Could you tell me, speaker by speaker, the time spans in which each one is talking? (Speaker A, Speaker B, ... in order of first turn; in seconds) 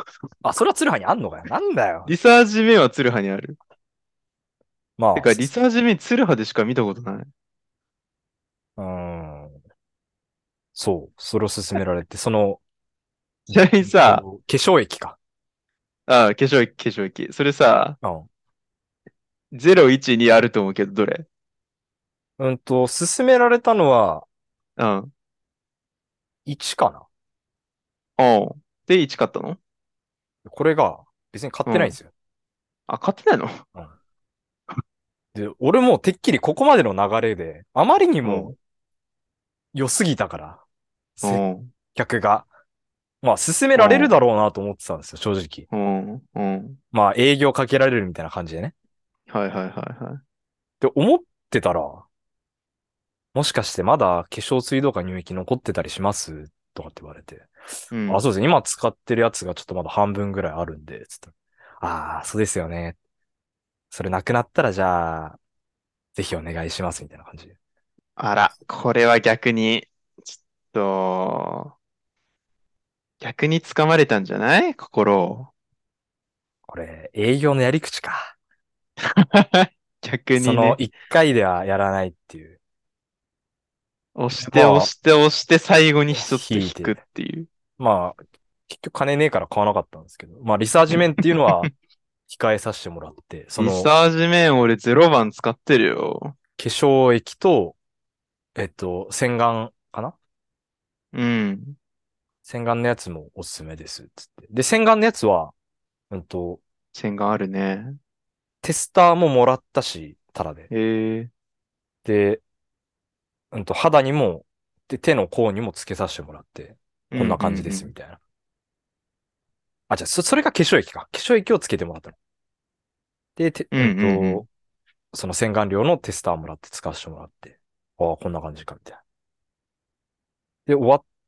Speaker A: 0.4-2.1, 5.0-5.5, 8.8-9.5, 10.7-12.6, 13.8-15.2, 18.0-18.3, 22.4-24.2, 26.4-27.1, 30.4-32.1, 35.3-38.5, 39.7-40.6, 41.2-41.4, 41.9-42.5, 43.2-45.7, 46.9-48.7, 50.8-52.0, 53.3-57.5, 58.1-63.0, 63.9-65.4, 66.2-67.5, 76.7-78.3, 80.3-82.6, 84.4-84.9, 86.1-87.0, 87.8-88.2, 88.7-91.7, 92.3-93.9, 96.6-97.8, 98.5-100.1, 102.4-105.5, 106.1-106.6, 108.6-110.7, 112.0-112.4, 113.5-118.2, 119.9-122.2, 123.4-124.5, 125.1-129.0, 130.7-131.0
Speaker B: 2.1-3.6, 5.1-7.3, 13.5-14.2, 16.1-18.0, 19.5-21.3, 24.8-25.1, 28.2-29.6, 31.6-31.9, 32.9-33.6, 38.2-38.5, 41.2-41.7, 43.7-44.1, 45.7-46.8, 49.3-50.2, 57.9-58.2, 68.2-71.7, 73.2-75.5, 79.2-80.8, 84.2-87.5, 93.6-96.3, 101.1-101.8, 106.9-108.0, 110.7-111.3, 117.1-117.9, 123.7-124.4